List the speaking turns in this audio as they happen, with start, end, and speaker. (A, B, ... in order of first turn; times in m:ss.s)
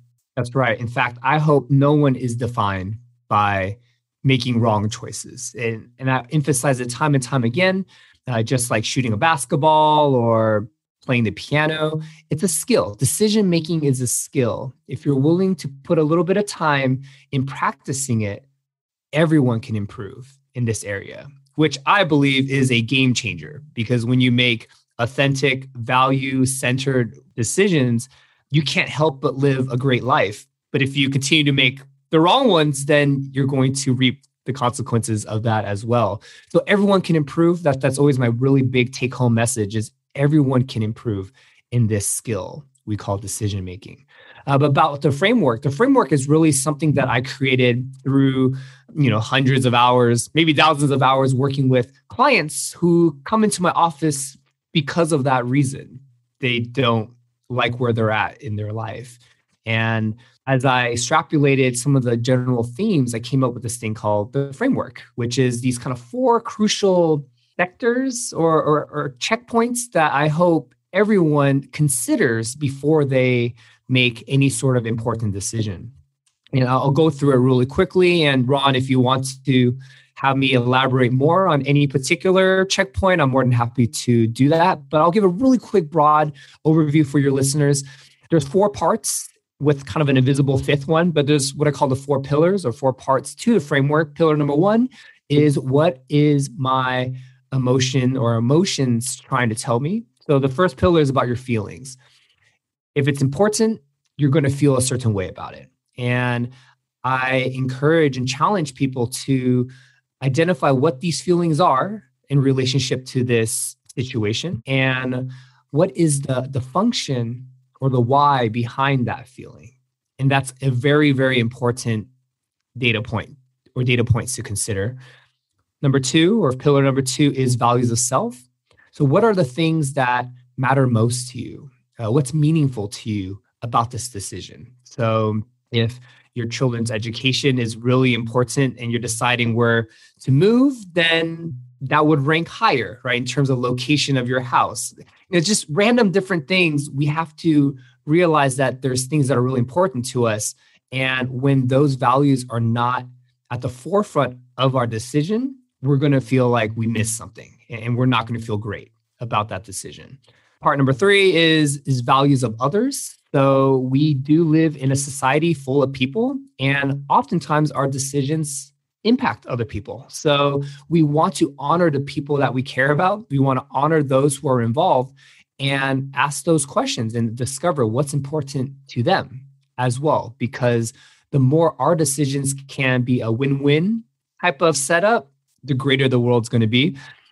0:00.4-0:18.4 A
0:19.1-1:15.9 A
1:16.5-1:42.0 A
1:42.9-1:46.5 A
1:47.0-1:49.7 A
1:50.2-2:02.1 A
2:02.8-2:05.0 A
2:05.8-2:08.4 A
2:08.9-3:07.0 A